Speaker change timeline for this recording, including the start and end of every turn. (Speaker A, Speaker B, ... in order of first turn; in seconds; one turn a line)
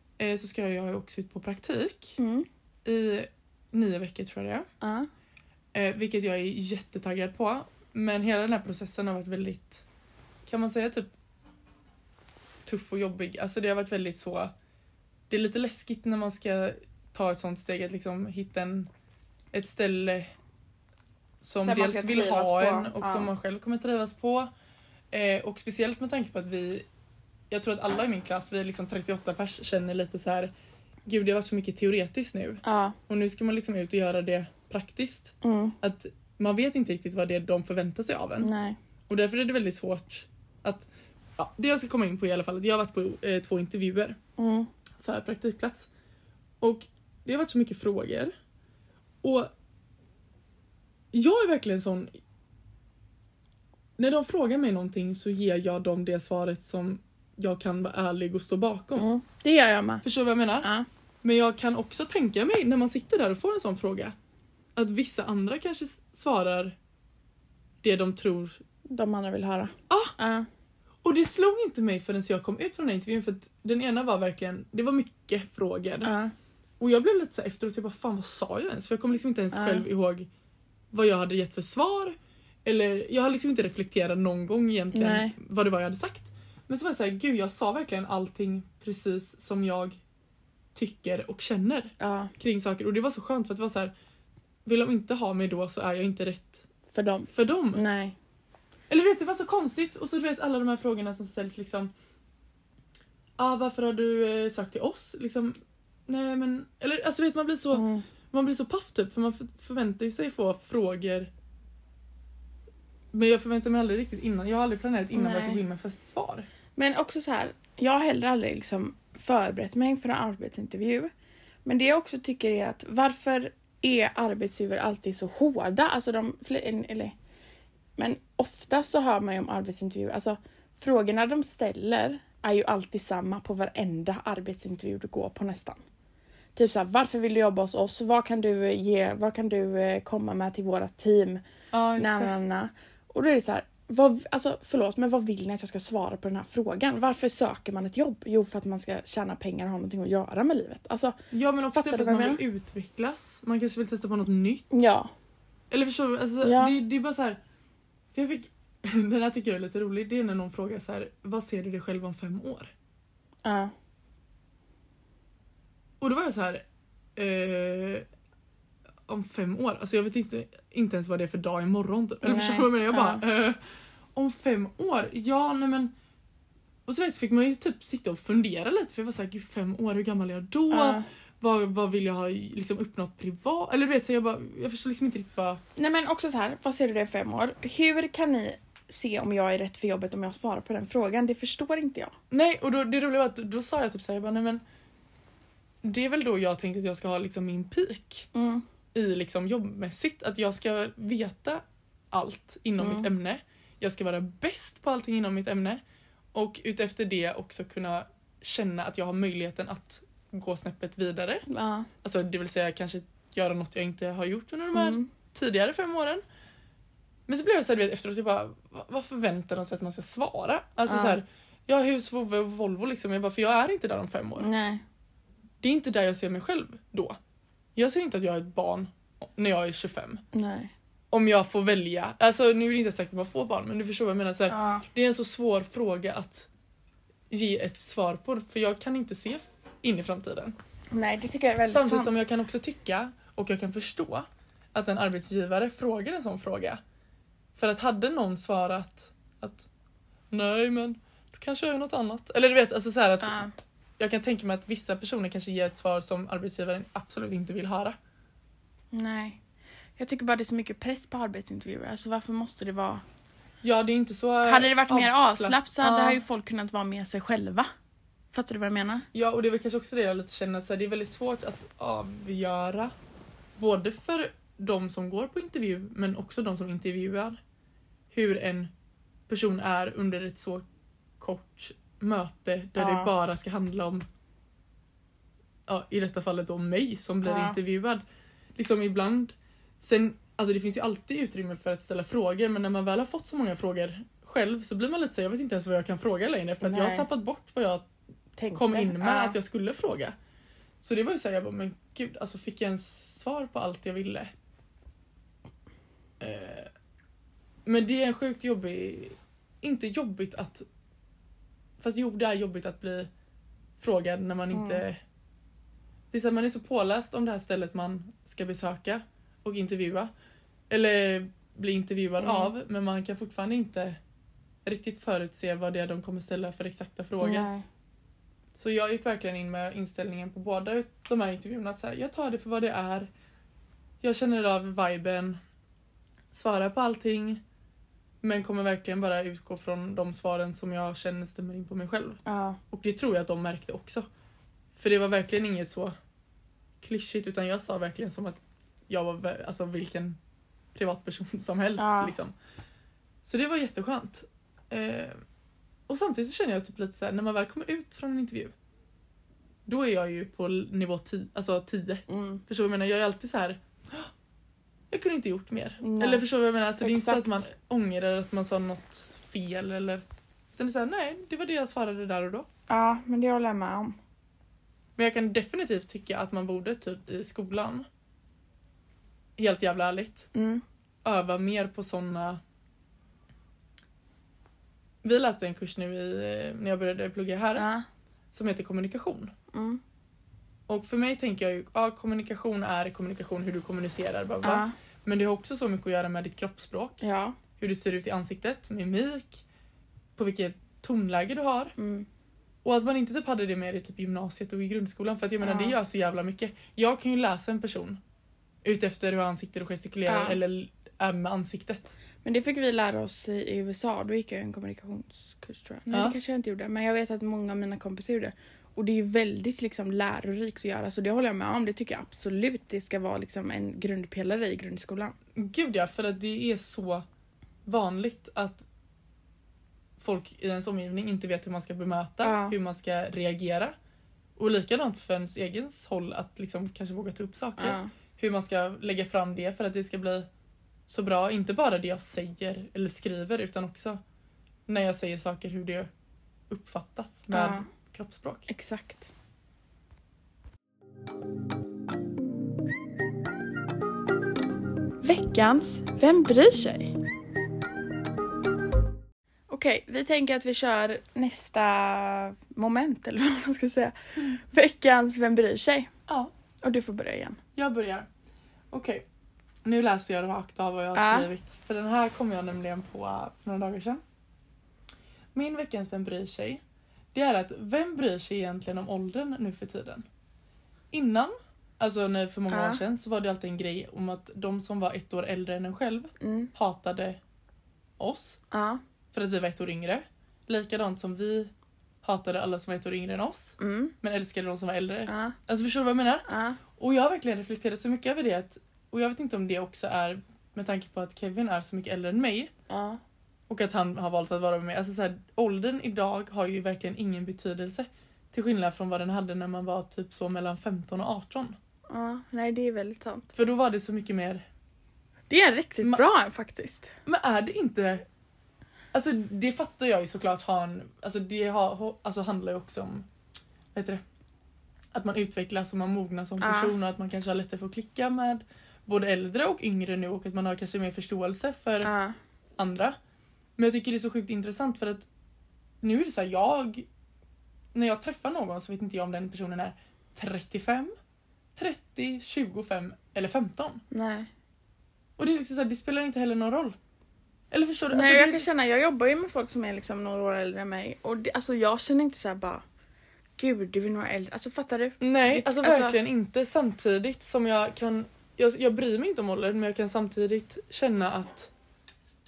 Speaker A: 0.2-2.2
Speaker B: 2.2-2.5
Speaker A: 2.9-4.7
Speaker B: 4.8-5.1
Speaker A: 5.7-9.8
Speaker A: 10.5-11.1
Speaker A: 12.7-14.5
Speaker A: 15.3-18.9
Speaker A: 19.5-20.3
Speaker A: 21.4-24.5
Speaker B: 21.6-23.3
Speaker A: 25.1-26.9
Speaker A: 27.5-30.5
Speaker A: 31.1-38.5
Speaker B: 32.6-33.0
Speaker B: 35.4-35.8
Speaker B: 38.4-38.8
Speaker A: 39.1-44.2
Speaker B: 44.4-44.7
Speaker A: 45.0-45.9
Speaker A: 46.6-48.3
Speaker A: 49.2-49.5
Speaker A: 51.1-52.1
Speaker A: 54.0-59.1
Speaker B: 59.0-60.0
Speaker A: 60.0-60.7
Speaker A: 61.2-64.2
Speaker A: 64.8-66.8
Speaker A: 67.8-68.6
Speaker B: 68.9-70.5
Speaker A: 71.0-76.1
Speaker B: 76.0-76.3
Speaker A: 76.8-80.3
Speaker B: 79.5-79.9
Speaker A: 80.9-90.0
Speaker B: 84.9-85.3
Speaker A: 90.7-93.9
Speaker B: 92.0-92.3
Speaker A: 94.7-96.7
Speaker B: 96.9-98.2
Speaker A: 97.3-97.8
Speaker A: 98.9-101.9
Speaker A: 103.4-111.3
Speaker B: 107.7-108.0
Speaker A: 113.1-116.5
Speaker B: 115.1-115.6
Speaker B: 116.8-121.1
Speaker B: 121.7-127.2
Speaker B: 128.0-135.8
Speaker B: 136.6-141.4
Speaker A: 141.7-142.4
Speaker B: 142.0-151.2
Speaker A: 151.3-154.9
Speaker B: 151.7-152.4
Speaker B: 154.7-155.1
Speaker A: 155.7-157.4
Speaker B: 156.4-156.8
Speaker A: 158.1-162.7
Speaker B: 163.4-163.7
Speaker A: 166.0-166.6
Speaker A: 167.2-168.1
Speaker A: 169.1-173.6
Speaker B: 172.2-173.2
Speaker A: 174.1-175.9
Speaker A: 176.9-185.6
Speaker B: 180.7-181.1
Speaker B: 185.8-192.1
Speaker A: 192.3-194.6
Speaker A: 195.8-198.3
Speaker B: 198.3-198.6
Speaker A: 198.9-205.8
Speaker B: 202.8-203.1
Speaker A: 206.3-211.4
Speaker B: 211.5-211.9
Speaker A: 212.0-216.2
Speaker B: 214.7-215.1
Speaker A: 217.3-224.5
Speaker B: 220.9-221.2
Speaker B: 224.4-224.8
Speaker A: 225.6-227.2
Speaker A: 227.8-230.2
Speaker B: 230.3-230.7
Speaker A: 231.1-236.5
Speaker B: 234.5-234.8
Speaker A: 237.3-240.6
Speaker B: 240.9-242.2
Speaker A: 241.7-246.8
Speaker A: 247.6-249.7
Speaker A: 250.3-253.4
Speaker B: 253.2-253.5
Speaker A: 254.0-258.0
Speaker B: 258.9-259.4
Speaker B: 260.0-263.0
Speaker A: 263.6-266.2
Speaker B: 264.5-267.7
Speaker B: 268.3-269.1
Speaker A: 269.1-272.9
Speaker A: 273.6-277.4
Speaker A: 278.1-278.7
Speaker A: 279.3-280.6
Speaker A: 281.2-284.1
Speaker B: 282.8-283.1
Speaker A: 285.7-288.0
Speaker B: 287.2-287.6
Speaker A: 288.6-297.9
Speaker B: 296.6-297.1
Speaker B: 298.4-299.4
Speaker A: 298.5-300.1
Speaker A: 300.8-304.3
Speaker A: 306.2-306.7
Speaker A: 307.6-310.6
Speaker A: 311.8-313.1
Speaker A: 313.8-315.0
Speaker B: 314.5-314.8
Speaker A: 316.1-320.1
Speaker A: 320.7-324.0
Speaker B: 322.2-322.5
Speaker A: 324.6-327.5
Speaker B: 327.2-327.7
Speaker A: 328.6-333.1
Speaker A: 334.0-335.4
Speaker A: 336.3-337.4
Speaker A: 338.2-342.2
Speaker B: 342.3-342.6
Speaker A: 342.7-344.1
Speaker A: 344.8-346.0
Speaker A: 346.8-350.2
Speaker A: 350.8-352.4
Speaker B: 351.8-352.1
Speaker A: 353.2-355.2
Speaker A: 355.9-358.5
Speaker A: 359.7-364.1
Speaker B: 362.1-362.4
Speaker A: 364.9-370.0
Speaker B: 365.8-366.2
Speaker B: 366.8-367.5
Speaker A: 370.6-372.5
Speaker B: 372.7-374.0
Speaker A: 375.0-377.9
Speaker A: 379.4-380.3
Speaker B: 380.3-380.6
Speaker A: 381.0-382.4
Speaker A: 385.0-387.7
Speaker B: 387.6-387.9
Speaker A: 388.3-389.3
Speaker B: 389.5-389.8
Speaker A: 390.7-397.0
Speaker B: 394.4-394.7
Speaker B: 397.0-397.4
Speaker A: 397.6-399.4
Speaker A: 400.2-401.7
Speaker B: 401.8-402.1
Speaker A: 402.6-408.0
Speaker B: 405.4-405.8
Speaker A: 408.6-411.9
Speaker B: 410.1-410.4
Speaker B: 412.2-425.1
Speaker A: 415.9-416.2
Speaker A: 425.4-427.1
Speaker A: 427.7-428.6
Speaker A: 430.0-433.7
Speaker B: 432.2-432.6
Speaker A: 434.4-440.3
Speaker B: 437.6-437.9
Speaker A: 440.9-444.0
Speaker A: 444.7-445.9
Speaker A: 446.5-448.5
Speaker B: 447.3-447.7
Speaker B: 448.5-449.1
Speaker B: 455.0-457.0
Speaker B: 459.5-465.9
Speaker A: 466.1-466.3
Speaker B: 466.6-467.4
Speaker A: 467.6-468.1
Speaker A: 468.7-469.1
Speaker A: 469.6-474.0
Speaker B: 470.9-471.3
Speaker A: 475.3-476.6
Speaker A: 477.1-480.1
Speaker A: 480.9-487.2
Speaker B: 482.5-482.8
Speaker B: 486.2-486.5
Speaker A: 488.0-488.4
Speaker B: 488.5-488.8
Speaker A: 489.1-491.5
Speaker A: 492.0-502.5
Speaker B: 493.6-493.9
Speaker B: 495.1-495.4
Speaker B: 496.3-496.6
Speaker B: 502.7-503.0
Speaker A: 503.5-511.6
Speaker B: 511.9-513.3
Speaker A: 513.3-514.5
Speaker B: 515.3-516.9
Speaker A: 517.1-518.0
Speaker A: 518.9-523.1
Speaker A: 523.7-524.0
Speaker A: 524.9-531.9
Speaker B: 526.4-526.8
Speaker B: 531.8-532.2
Speaker A: 532.6-533.0
Speaker A: 533.6-535.1
Speaker A: 535.8-536.9
Speaker A: 537.7-540.9
Speaker A: 541.6-543.8
Speaker B: 543.9-544.3
Speaker A: 545.2-546.8
Speaker A: 547.5-548.5
Speaker B: 547.9-552.6
Speaker B: 553.4-556.0
Speaker A: 555.0-561.5